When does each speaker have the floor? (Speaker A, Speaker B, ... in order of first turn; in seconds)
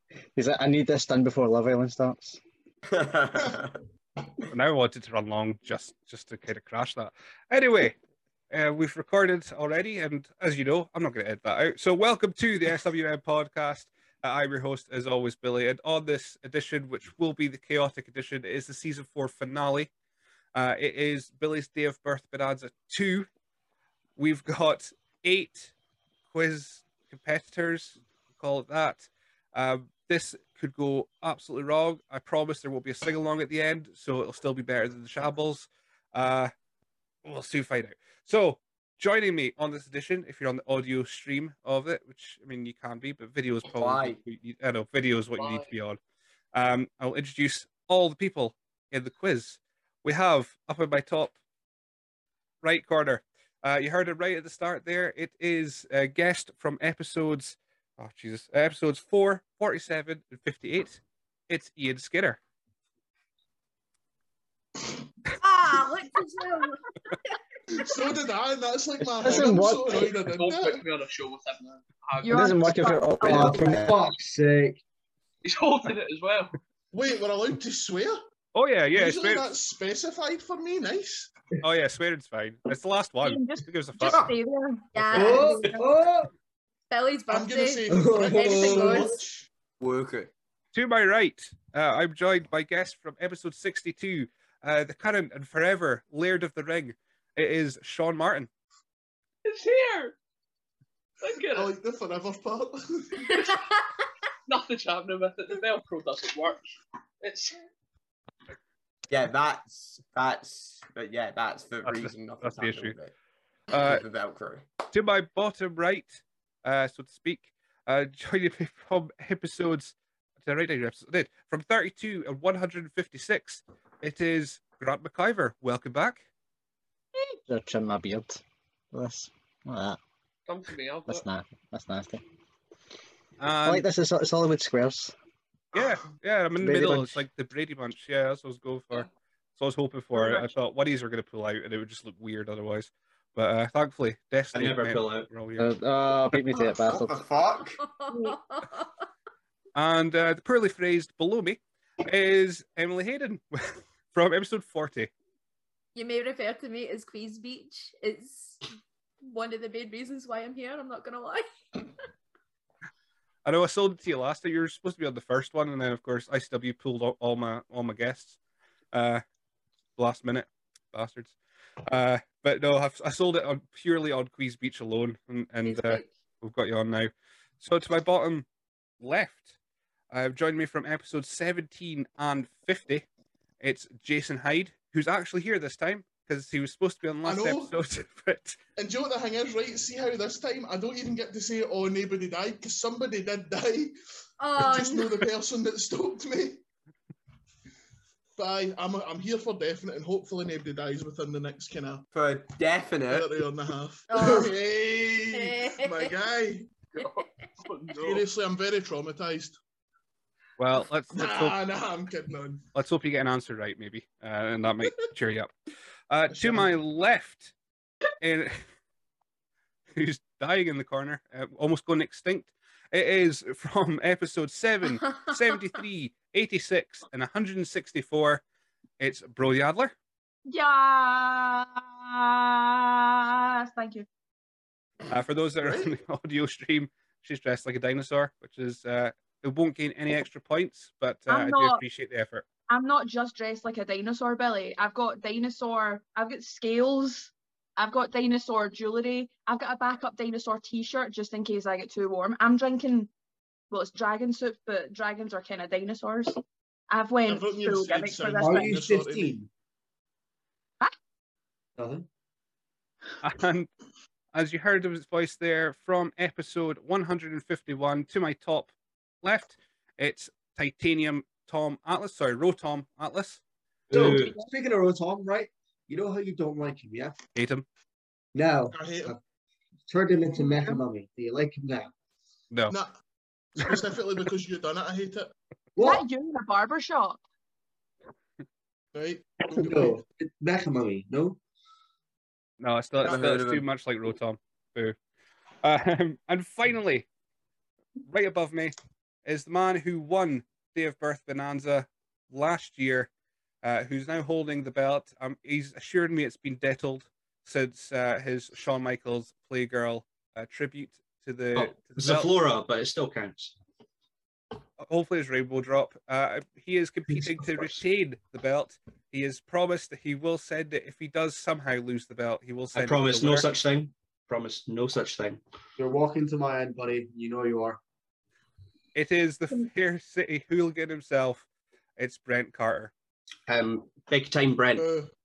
Speaker A: 0.3-2.4, 69.2-70.1, 72.3-74.0, 127.5-128.4, 128.9-130.0, 131.1-132.2, 133.6-135.1, 136.6-137.2, 145.6-147.2
Speaker B: 2.9-3.8, 43.8-44.2, 89.8-90.3, 109.1-113.1, 113.7-114.7, 146.9-147.8, 202.1-203.4, 293.0-293.6
Speaker C: 4.5-8.0, 8.5-19.9, 20.6-23.3, 24.2-25.7, 26.3-36.5, 37.2-46.0, 46.5-51.4, 52.6-62.4, 78.5-79.5, 81.6-84.3, 90.7-98.5, 111.8-113.0, 113.7-114.0, 114.9-126.2, 133.4-133.9, 135.7-145.7, 149.8-155.1, 163.4-168.4, 168.9-169.2, 170.0-171.3, 171.8-177.1, 177.6-178.5, 179.0-179.5, 180.1-183.1, 183.6-188.6, 210.6-211.6, 212.8-215.5, 216.1-217.5, 218.2-218.6, 219.9-228.4, 229.0-229.9, 235.1-242.5, 263.2-263.7, 264.3-268.7, 269.2-273.4, 277.4-277.6, 292.6-295.0, 295.6-297.1, 298.1-303.1, 303.6-312.3, 314.8-323.5, 328.9-331.4, 332.0-332.9
Speaker D: 45.4-45.7, 70.3-72.5, 75.4-76.6, 99.5-100.2, 101.2-101.7, 104.5-107.6, 130.5-131.2, 206.9-208.2
Speaker E: 65.4-67.1, 85.0-85.8, 86.9-89.2, 147.8-148.9, 155.9-158.7, 159.2-161.5, 175.7-176.1, 194.4-195.3, 204.1-204.5, 205.3-206.1, 225.1-225.3
Speaker F: 67.8-70.8, 76.9-78.2, 78.9-81.3, 87.3-89.5, 101.5-103.4, 187.2-187.8, 188.8-193.9, 194.6-196.6, 198.4-202.1, 203.1-206.7, 208.0-209.6, 211.1-212.6, 216.3-216.8, 235.6-235.9, 257.3-259.4, 278.7-279.2, 282.7-282.9, 283.6-285.3, 288.9-290.0, 334.8-335.1
Speaker G: 72.2-73.7, 83.2-85.8, 140.2-140.5, 148.1-148.3, 230.5-234.1, 241.3-241.8, 242.7-253.1, 253.7-256.4, 256.9-258.7, 285.8-287.2
Speaker H: 73.2-74.8, 85.1-86.3, 87.9-89.1, 258.4-259.5, 261.8-262.1, 273.9-277.2, 278.3-279.2, 279.9-281.9, 285.8-286.1, 289.6-291.4, 325.8-327.8
Speaker I: 144.5-145.3, 273.9-274.4, 311.6-313.5, 317.1-317.8, 322.8-325.4, 333.5-334.9